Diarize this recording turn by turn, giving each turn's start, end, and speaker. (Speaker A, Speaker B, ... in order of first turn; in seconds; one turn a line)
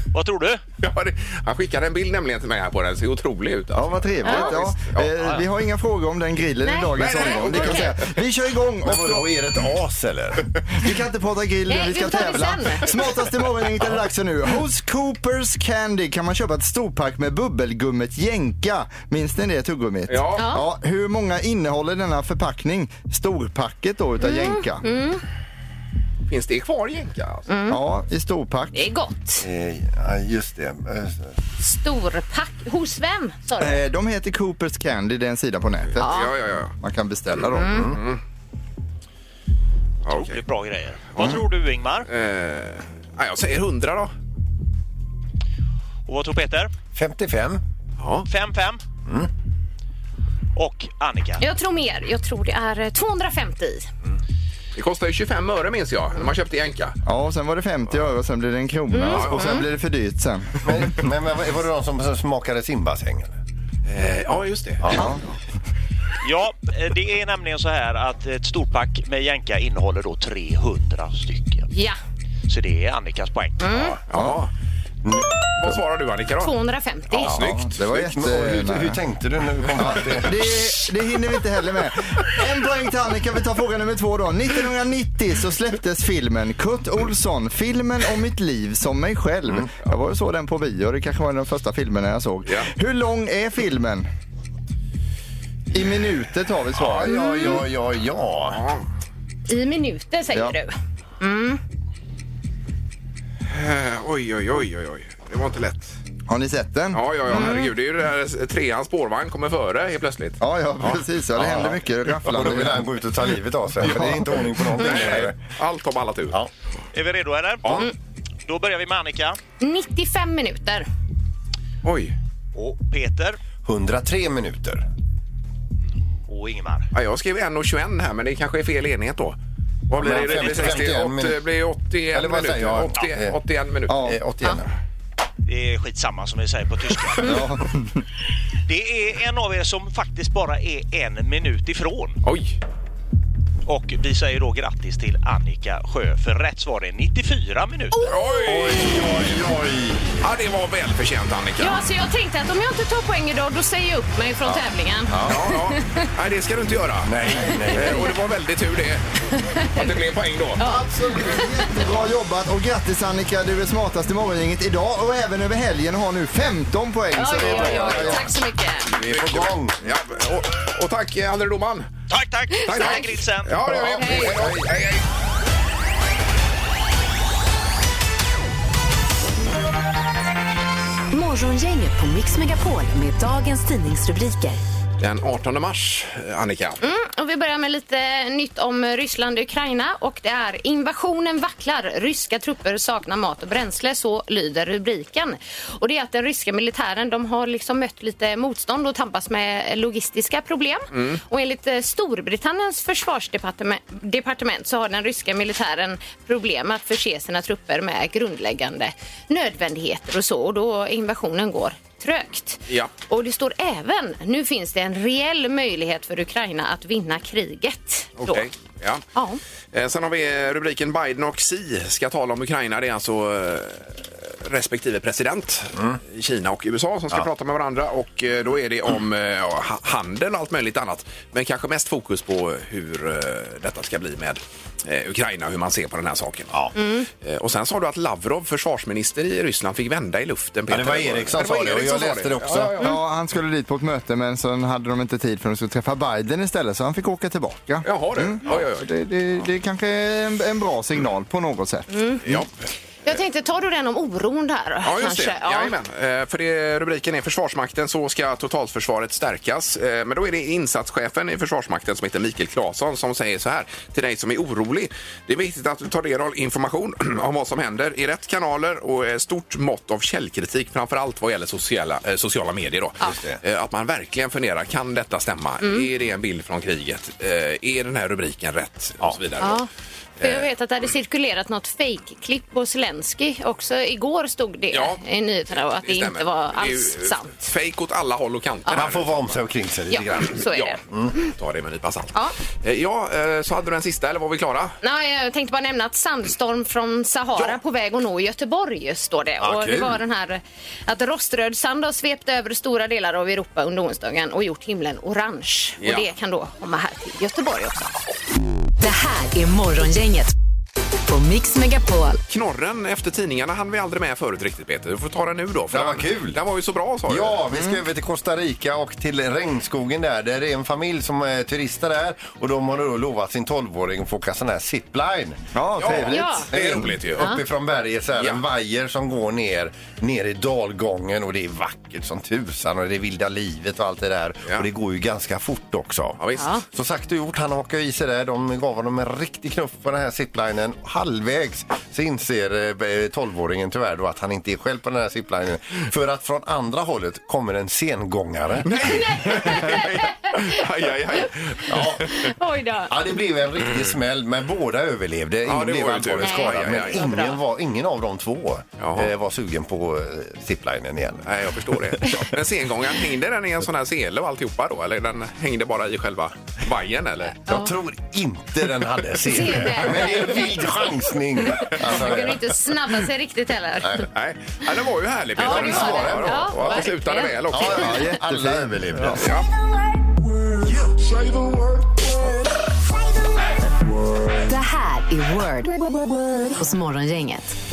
Speaker A: 0.1-0.6
Speaker B: 0.8-5.4
Speaker C: 3.7-9.3
Speaker D: 4.2-4.6
Speaker D: 6.6-8.0
Speaker B: 7.0-8.1
Speaker E: 8.8-10.5
Speaker C: 10.8-24.9
Speaker D: 11.7-12.9
Speaker B: 20.1-20.5
Speaker D: 20.4-20.6
Speaker D: 24.2-25.2
Speaker B: 26.3-27.5
Speaker D: 27.5-27.8
Speaker C: 27.7-28.9
Speaker D: 28.7-29.4
Speaker E: 29.4-31.3
Speaker D: 31.6-33.8
Speaker C: 33.6-38.0
Speaker D: 36.0-36.3
Speaker B: 36.0-36.7
Speaker B: 37.4-38.2
Speaker D: 37.6-37.9
Speaker E: 37.7-38.0
Speaker B: 40.1-40.4
Speaker A: 40.1-42.1
Speaker B: 42.1-44.1
Speaker A: 46.1-46.7
Speaker E: 47.0-47.6
Speaker B: 48.0-48.3
Speaker A: 48.3-48.8
Speaker A: 50.6-51.4
Speaker D: 51.4-53.9
Speaker B: 54.8-57.0
Speaker C: 57.0-60.6
Speaker D: 58.9-59.6
Speaker B: 59.0-59.6
Speaker E: 60.6-63.4
Speaker B: 63.9-64.9
Speaker E: 64.8-65.1
Speaker C: 64.9-65.2
Speaker A: 66.2-71.7
Speaker D: 71.7-72.0
Speaker A: 72.5-74.0
Speaker D: 73.6-74.0
Speaker B: 74.1-74.5
Speaker C: 74.2-74.4
Speaker E: 75.0-75.4
Speaker B: 75.6-76.5
Speaker D: 76.4-77.3
Speaker B: 77.1-77.7
Speaker C: 77.2-79.0
Speaker E: 77.2-80.4
Speaker C: 79.8-94.1
Speaker C: 95.7-97.3
Speaker E: 96.8-98.6
Speaker D: 97.1-97.6
Speaker B: 98.5-98.8
Speaker D: 99.5-101.6
Speaker B: 103.5-106.0
Speaker C: 106.3-107.5
Speaker B: 106.9-111.0
Speaker D: 107.3-107.7
Speaker C: 110.4-112.8
Speaker E: 111.4-115.4
Speaker C: 113.8-114.4
Speaker B: 113.9-114.2
Speaker B: 114.7-116.4
Speaker A: 116.9-117.9
Speaker A: 118.5-119.4
Speaker D: 119.6-120.9
Speaker B: 121.8-122.2
Speaker A: 122.5-123.4
Speaker E: 123.6-124.8
Speaker A: 126.3-126.9
Speaker B: 126.9-129.4
Speaker B: 129.9-134.0
Speaker E: 130.0-131.4
Speaker A: 130.1-130.8
Speaker E: 132.1-133.4
Speaker C: 133.9-134.2
Speaker E: 133.9-134.7
Speaker A: 135.5-137.4
Speaker C: 137.2-138.0
Speaker A: 138.7-142.2
Speaker B: 142.2-142.6
Speaker A: 143.7-148.1
Speaker D: 147.9-148.8
Speaker B: 148.0-149.1
Speaker E: 148.4-150.2
Speaker B: 150.2-151.9
Speaker D: 151.6-156.1
Speaker E: 154.4-155.4
Speaker B: 155.2-159.1
Speaker E: 157.0-158.1
Speaker D: 159.4-159.9
Speaker B: 159.7-160.6
Speaker D: 160.6-161.8
Speaker C: 160.6-168.3
Speaker D: 167.2-168.9
Speaker E: 167.2-168.3
Speaker E: 168.9-169.8
Speaker B: 169.0-171.9
Speaker A: 172.1-173.6
Speaker D: 172.5-173.1
Speaker B: 172.7-175.0
Speaker E: 173.6-174.7
Speaker D: 174.0-174.3
Speaker F: 181.1-184.6
Speaker B: 185.0-186.8
Speaker D: 186.8-218.4
Speaker B: 200.9-201.2
Speaker B: 218.2-219.0
Speaker D: 219.2-219.4
Speaker B: 219.7-236.6
Speaker D: 236.8-237.1
Speaker B: 237.2-242.9
Speaker E: 240.7-242.8
Speaker C: 242.8-251.9
Speaker B: 247.8-248.9
Speaker D: 251.9-252.2
Speaker B: 252.3-252.5
Speaker D: 253.1-255.7
Speaker B: 254.8-279.6
Speaker E: 273.1-273.4
Speaker D: 275.6-275.9
Speaker D: 279.4-279.7
Speaker B: 280.2-280.5
Speaker D: 280.2-287.5
Speaker B: 284.7-285.0
Speaker B: 285.7-289.4
Speaker E: 288.7-291.1
Speaker D: 289.9-291.3
Speaker B: 290.4-294.8
Speaker D: 294.8-308.2
Speaker E: 299.4-300.0
Speaker B: 305.8-306.1
Speaker F: 308.8-310.3
Speaker F: 311.1-312.2
Speaker B: 312.3-317.4
Speaker E: 315.7-316.4
Speaker E: 317.1-325.4
Speaker C: 317.5-317.8
Speaker C: 325.5-326.8
Speaker B: 325.8-327.4
Speaker D: 326.1-326.5
Speaker E: 326.5-349.0
Speaker B: 328.2-328.4
Speaker B: 336.2-336.5
Speaker D: 336.4-336.6
Speaker B: 348.7-352.3
Speaker D: 348.7-351.3
Speaker E: 351.7-352.2
Speaker D: 352.0-352.9
Speaker E: 352.9-361.3
Speaker B: 355.5-357.2
Speaker D: 356.2-357.4
Speaker B: 358.8-359.1
Speaker B: 361.2-367.4
Speaker E: 367.5-372.6
Speaker D: 367.5-367.7
Speaker D: 369.3-370.7
Speaker D: 371.6-374.1
Speaker E: 373.8-374.1
Speaker B: 374.1-378.1
Speaker D: 375.4-377.4
Speaker E: 375.4-376.8
Speaker E: 377.5-379.3
Speaker C: 377.7-379.3
Speaker B: 379.2-379.5
Speaker F: 384.4-385.8
Speaker F: 386.4-387.5